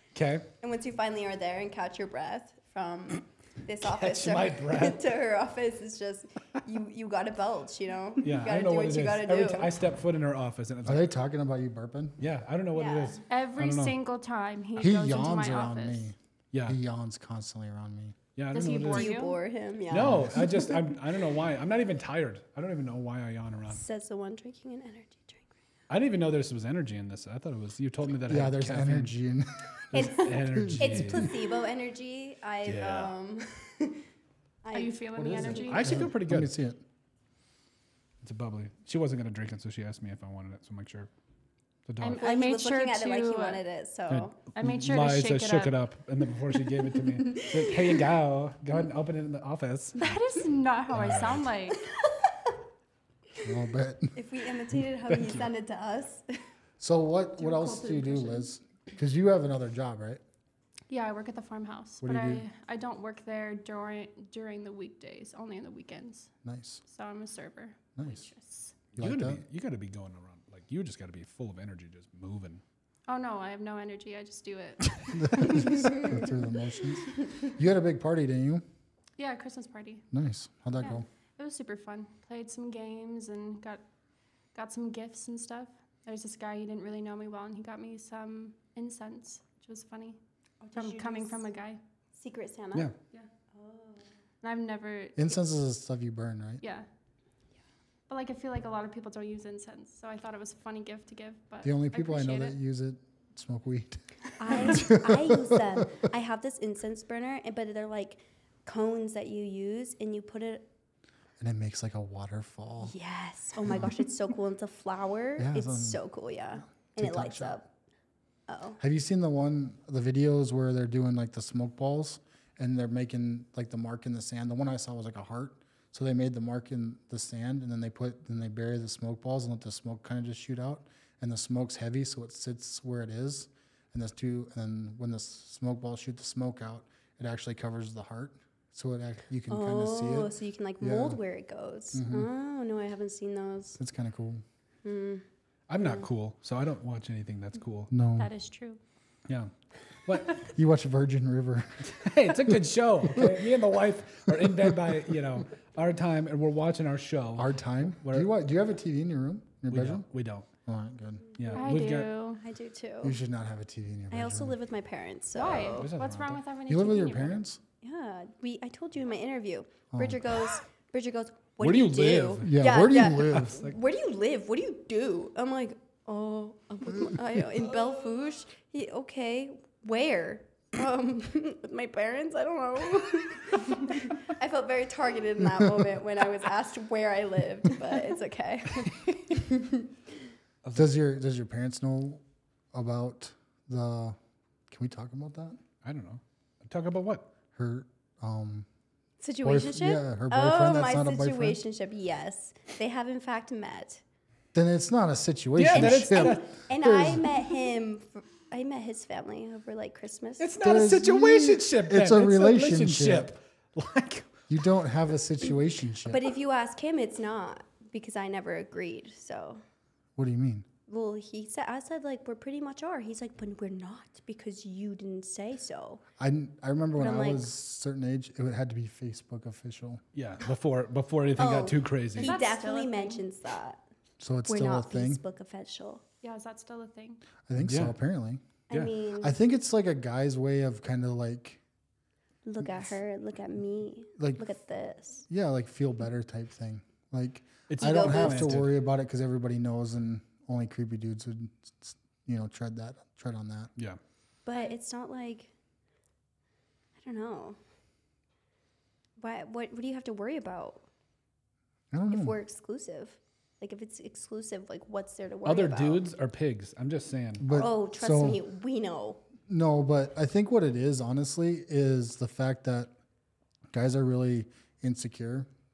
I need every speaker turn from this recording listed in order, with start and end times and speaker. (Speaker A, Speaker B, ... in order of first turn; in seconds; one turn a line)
Speaker A: 0.1-0.5
Speaker B: 0.6-9.7
Speaker A: 3.8-5.0
Speaker A: 8.2-11.1
Speaker C: 10.8-12.2
Speaker A: 12.2-14.0
Speaker B: 12.7-13.2
Speaker D: 13.3-16.1
Speaker C: 14.8-18.2
Speaker A: 16.5-16.8
Speaker A: 18.4-19.2
Speaker D: 18.5-19.4
Speaker B: 18.9-20.7
Speaker A: 19.9-23.8
Speaker B: 23.7-25.6
Speaker A: 25.9-29.1
Speaker C: 28.3-31.3
Speaker A: 29.9-31.3
Speaker B: 29.9-34.0
Speaker A: 32.6-33.1
Speaker B: 34.6-36.0
Speaker D: 34.7-36.1
Speaker C: 35.1-36.8
Speaker A: 35.7-36.5
Speaker A: 38.2-41.1
Speaker A: 41.9-42.2
Speaker D: 42.0-43.6
Speaker B: 42.1-44.4
Speaker A: 44.1-50.2
Speaker D: 44.5-45.8
Speaker B: 47.3-47.9
Speaker D: 50.0-51.8
Speaker A: 50.9-51.5
Speaker B: 52.0-52.4
Speaker C: 53.4-54.1
Speaker B: 54.1-56.4
Speaker A: 55.1-55.5
Speaker C: 56.8-60.2
Speaker D: 57.4-58.4
Speaker D: 60.9-66.3
Speaker C: 62.0-62.5
Speaker C: 66.5-66.8
Speaker D: 66.9-68.7
Speaker C: 68.0-68.2
Speaker A: 68.9-72.6
Speaker C: 69.0-69.4
Speaker D: 73.1-76.3
Speaker C: 75.1-78.6
Speaker D: 79.2-80.0
Speaker C: 80.1-81.0
Speaker D: 80.8-83.8
Speaker D: 84.5-90.2
Speaker B: 90.6-91.4
Speaker D: 90.7-91.8
Speaker B: 92.2-92.9
Speaker B: 93.5-94.0
Speaker D: 94.4-95.4
Speaker C: 95.2-96.6
Speaker D: 96.6-96.9
Speaker D: 98.1-102.6
Speaker C: 101.6-105.8
Speaker B: 104.4-110.7
Speaker C: 111.4-112.9
Speaker B: 112.8-117.7
Speaker C: 115.4-116.0
Speaker C: 117.0-117.6
Speaker B: 118.5-118.8
Speaker C: 118.8-141.2
Speaker B: 139.5-143.8
Speaker C: 141.9-142.3
Speaker C: 143.8-144.4
Speaker B: 144.8-145.2
Speaker A: 145.7-147.9
Speaker B: 145.8-146.1
Speaker C: 147.9-148.3
Speaker D: 148.2-148.8
Speaker A: 150.1-150.5
Speaker C: 150.4-151.8
Speaker A: 151.9-158.3
Speaker C: 157.4-160.1
Speaker A: 159.7-160.5
Speaker C: 160.7-161.3
Speaker A: 161.4-162.1
Speaker D: 161.6-162.4
Speaker B: 162.4-163.2
Speaker C: 163.0-164.6
Speaker B: 164.1-165.9
Speaker D: 165.3-167.4
Speaker A: 165.6-166.4
Speaker C: 166.7-167.6
Speaker B: 167.8-189.9
Speaker C: 169.9-170.2
Speaker A: 171.6-172.6
Speaker C: 172.4-173.7
Speaker A: 173.2-173.8
Speaker A: 190.6-190.9
Speaker C: 190.8-192.2
Speaker C: 192.7-194.2
Speaker C: 194.7-195.6
Speaker A: 195.8-197.3
Speaker C: 197.6-198.7
Speaker B: 199.2-204.0
Speaker C: 199.4-201.6
Speaker C: 204.5-207.3
Speaker A: 205.6-206.5
Speaker B: 205.7-210.5
Speaker A: 210.4-214.5
Speaker C: 210.6-213.3
Speaker C: 214.5-216.2
Speaker B: 216.1-219.6
Speaker C: 220.2-220.7
Speaker B: 220.9-226.0
Speaker C: 226.2-230.0
Speaker B: 227.0-227.5
Speaker A: 230.2-232.4
Speaker B: 231.4-233.8
Speaker D: 232.2-233.2
Speaker C: 234.2-235.2
Speaker B: 234.5-236.0
Speaker D: 236.2-237.2
Speaker C: 237.5-238.4
Speaker A: 237.6-237.9
Speaker B: 238.7-239.4
Speaker C: 239.2-241.6
Speaker B: 242.4-245.3
Speaker C: 244.2-244.4
Speaker C: 245.3-253.7
Speaker A: 247.7-248.7
Speaker B: 247.8-248.6
Speaker B: 254.5-255.5
Speaker B: 257.0-257.6
Speaker B: 259.2-260.9
Speaker C: 261.9-262.4
Speaker B: 262.1-266.1
Speaker A: 265.4-267.5
Speaker C: 267.4-268.4
Speaker B: 267.5-269.2
Speaker C: 269.5-272.9
Speaker C: 273.7-275.5